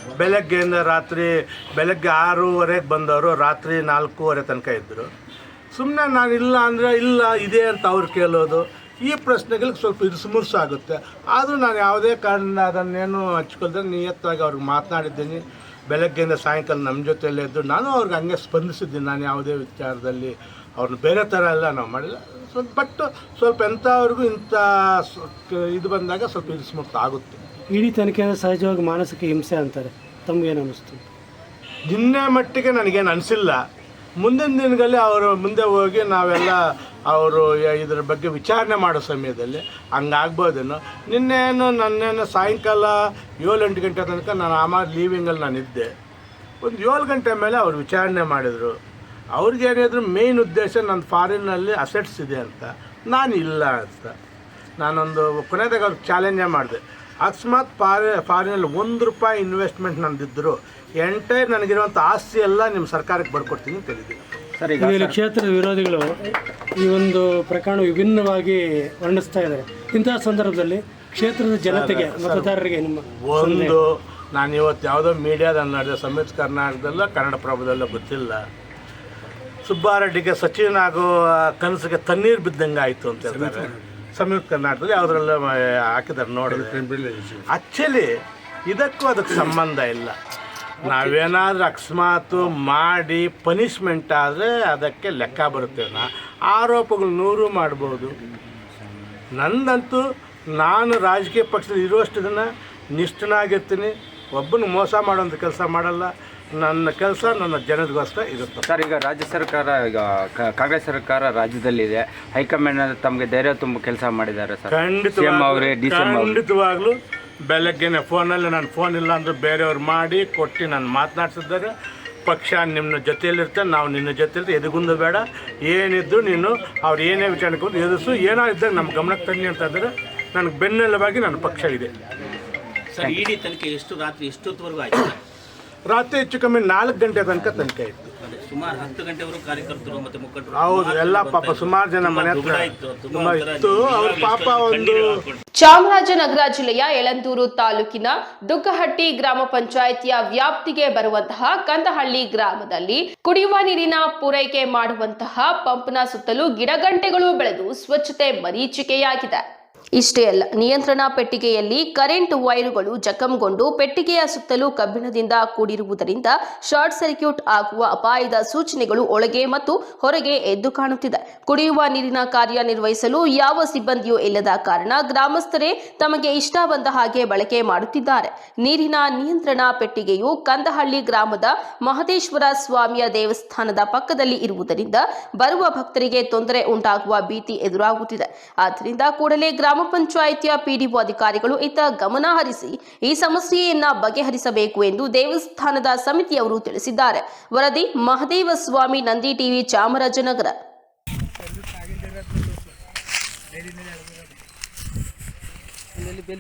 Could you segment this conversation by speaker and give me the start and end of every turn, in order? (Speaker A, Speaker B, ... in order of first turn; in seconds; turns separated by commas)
Speaker A: 0.2-5.1, Speaker A: 5.7-27.4, Speaker B: 27.7-31.0, Speaker A: 31.9-33.6, Speaker A: 34.2-45.9, Speaker A: 46.6-48.7, Speaker A: 49.4-54.1, Speaker A: 54.8-64.2, Speaker C: 64.6-65.2, Speaker B: 64.8-66.1, Speaker B: 66.8-73.8, Speaker A: 71.7-72.5, Speaker A: 73.2-78.4, Speaker A: 79.7-88.2, Speaker A: 88.7-90.2, Speaker A: 90.8-98.2, Speaker A: 99.4-100.0, Speaker A: 100.6-108.7, Speaker C: 108.7-116.4, Speaker A: 114.7-117.0, Speaker A: 117.5-121.7, Speaker A: 122.3-131.9, Speaker D: 132.9-135.1, Speaker A: 135.9-138.1, Speaker D: 138.2-145.4, Speaker A: 140.5-145.3, Speaker E: 145.6-159.4, Speaker E: 160.0-200.6